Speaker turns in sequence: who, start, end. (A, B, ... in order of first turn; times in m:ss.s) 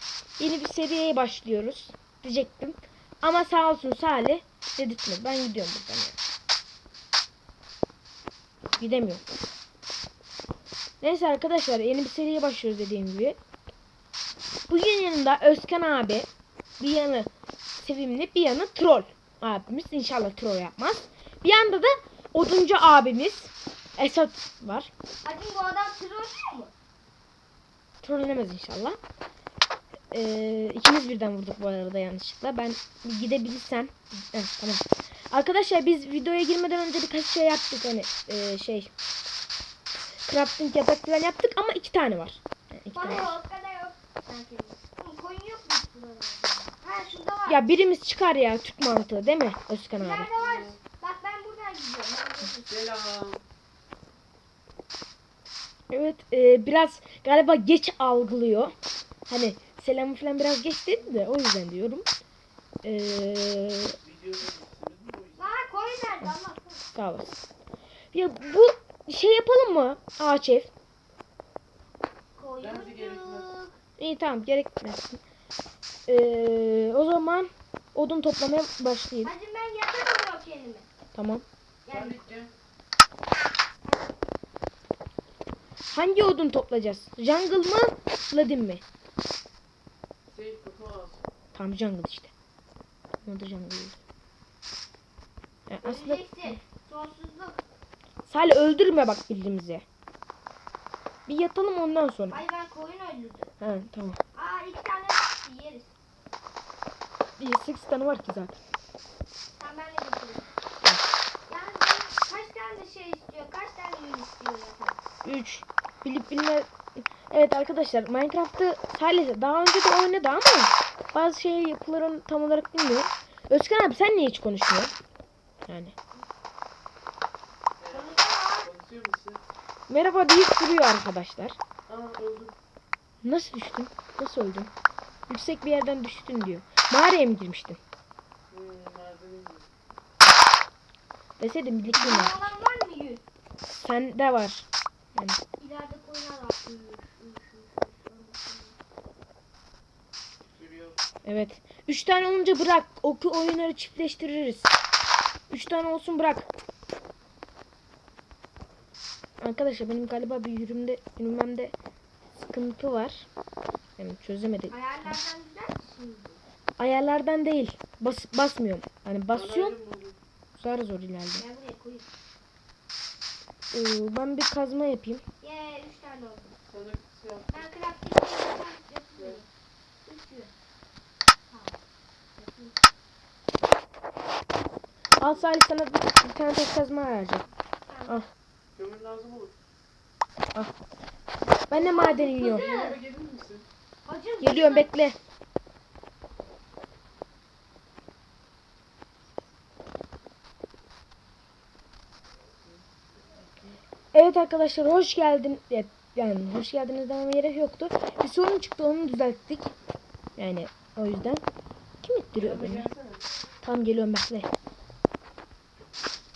0:00.4-0:06.1 A
0:08.8-0:09.2 A
0:11.0-0:13.4 A
0:14.7-0:16.3 A
0:16.8-0:24.9 A
0:25.2-0:26.7 B
0:28.0-0:29.0 A
0:30.1-0:38.9 A
0:40.2-0:43.4 A
0:42.9-0:47.6 B
0:47.5-0:50.3 A
0:50.0-0:52.7 B
0:50.4-0:50.8 C
0:52.6-0:53.4 C
0:55.9-0:58.7 A
0:59.3-1:02.0 A
1:02.8-1:04.0 A
1:04.0-1:05.5 C
1:05.4-1:06.8 B
1:06.9-1:07.4 A
1:08.1-1:10.7 A
1:12.3-1:13.7 B
1:12.6-1:13.5 C
1:14.0-1:15.2 A
1:16.1-1:19.3 A
1:19.2-1:20.9 B
1:21.1-1:21.4 A
1:21.8-1:22.2 B
1:21.9-1:22.5 C
1:25.9-1:28.8 A
1:30.3-1:31.2 C
1:31.5-1:32.3 A
1:33.2-1:34.0 A
1:35.7-1:36.6 A
1:35.8-1:37.6 B
1:38.2-1:39.8 A
1:41.3-1:42.4 A
1:42.3-1:43.5 B
1:43.6-1:44.2 A
1:44.3-1:45.9 B
1:47.4-1:48.6 A
1:49.6-1:50.5 B
1:51.5-1:55.0 B
1:55.2-2:04.9 A
2:05.7-2:05.9 A
2:07.8-2:09.4 C
2:07.9-2:08.7 B
2:09.9-2:11.6 A
2:11.9-2:12.5 C
2:13.2-2:14.7 A
2:15.3-2:17.8 A
2:18.5-2:19.7 C
2:21.4-2:22.5 A
2:21.9-2:23.2 B
2:23.7-2:25.4 A
2:25.6-2:28.8 B
2:30.5-2:31.0 C
2:31.2-2:34.7 A
2:35.5-2:36.5 A
2:39.4-2:41.7 A
2:42.3-2:43.2 A
2:44.0-2:45.2 A
2:44.7-2:46.4 B
2:46.8-2:49.7 A
2:49.3-2:50.2 C
2:50.5-2:51.4 A
2:51.4-2:52.1 B
2:53.7-2:55.2 A
2:55.4-2:56.5 B
2:56.7-2:57.7 C
2:57.5-2:59.5 B
3:00.0-3:00.5 B
3:01.5-3:01.7 B
3:02.4-3:02.7 B
3:05.2-3:07.4 A
3:07.9-3:08.1 B
3:08.8-3:09.5 C
3:11.7-3:12.7 A
3:11.7-3:13.0 B
3:12.3-3:13.6 C
3:14.0-3:14.9 B
3:14.4-3:15.2 A
3:23.3-3:23.8 C
3:24.1-3:29.7 A
3:30.4-3:31.4 A
3:32.0-3:32.9 A
3:32.4-3:33.2 C
3:33.6-3:34.5 A